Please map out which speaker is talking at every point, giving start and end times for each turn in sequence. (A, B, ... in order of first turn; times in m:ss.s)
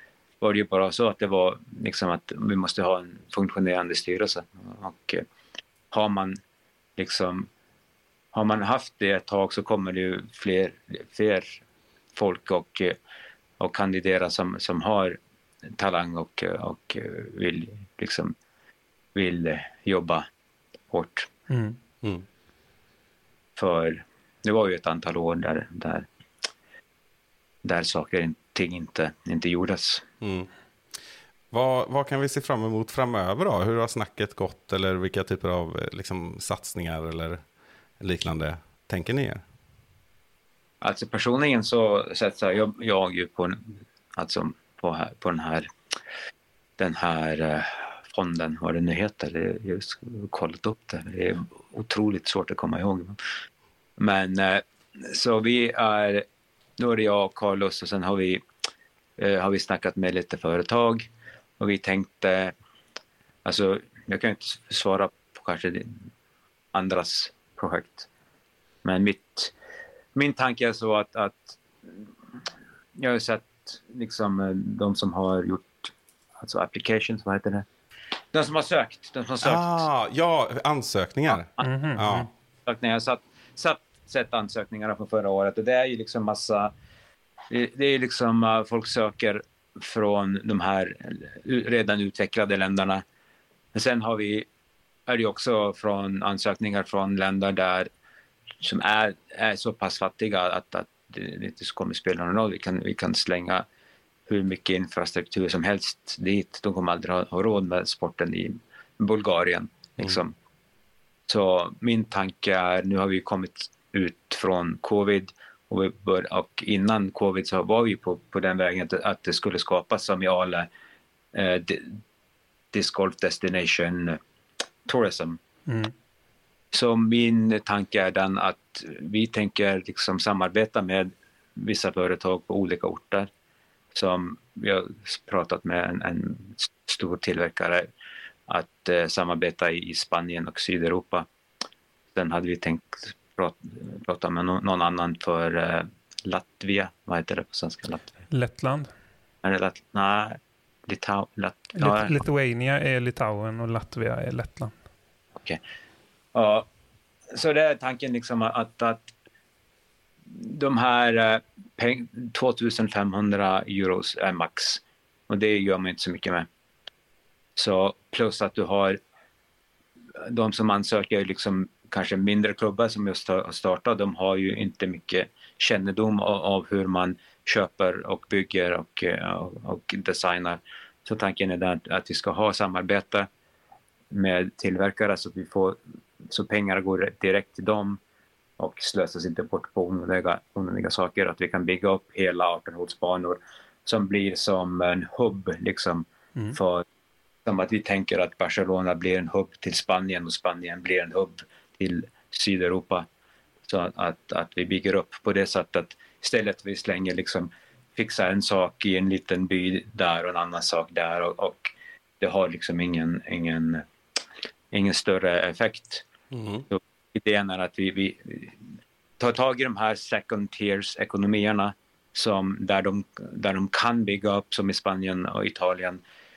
0:00.4-0:05.2 A
0:05.9-0:06.4 A
0:07.0-0:07.5 A
0:08.3-0:11.6 A
0:12.2-0:13.0 A
0:13.6-0:15.2 A
0:15.8-0:18.3 A
0:19.1-0:20.2 A
0:20.9-0:21.3 A
0:21.5-0:21.8 B
0:23.6-0:26.1 A
0:27.6-0:30.0 A
0:30.2-0:30.5 C
0:31.5-0:37.4 C
0:38.0-0:39.4 C
0:40.8-0:45.7 A
0:46.8-0:53.2 A
0:54.0-0:56.2 A
0:56.8-0:58.4 A
0:59.2-1:02.5 A
1:03.4-1:06.1 A
1:06.7-1:08.1 A
1:08.8-1:09.5 A
1:10.1-1:12.1 A
1:13.0-1:17.6 A
1:18.3-1:19.8 A
1:19.4-1:22.3 C
1:21.6-1:22.3 B
1:22.6-1:26.7 A
1:27.5-1:33.0 A
1:33.7-1:34.5 A
1:35.1-1:37.9 A
1:38.6-1:43.6 A
1:44.3-1:50.3 A
1:51.3-2:00.7 A
2:01.3-2:02.0 A
2:02.7-2:04.2 A
2:04.8-2:05.4 A
2:05.7-2:05.9 B
2:06.7-2:13.3 A
2:13.9-2:17.9 A
2:18.5-2:21.3 A
2:22.1-2:28.1 A
2:28.3-2:28.9 B
2:29.4-2:32.1 A
2:31.8-2:34.7 B
2:36.3-2:36.7 A
2:37.3-2:39.1 A
2:40.3-2:46.5 A
2:47.6-2:49.0 A
2:50.2-3:03.3 A
3:04.1-3:05.8 A
3:06.3-3:08.0 A
3:08.6-3:16.8 A
3:17.4-3:23.1 A
3:23.7-3:33.8 A
3:34.7-3:36.0 A
3:36.3-3:36.6 C
3:36.7-3:46.0 A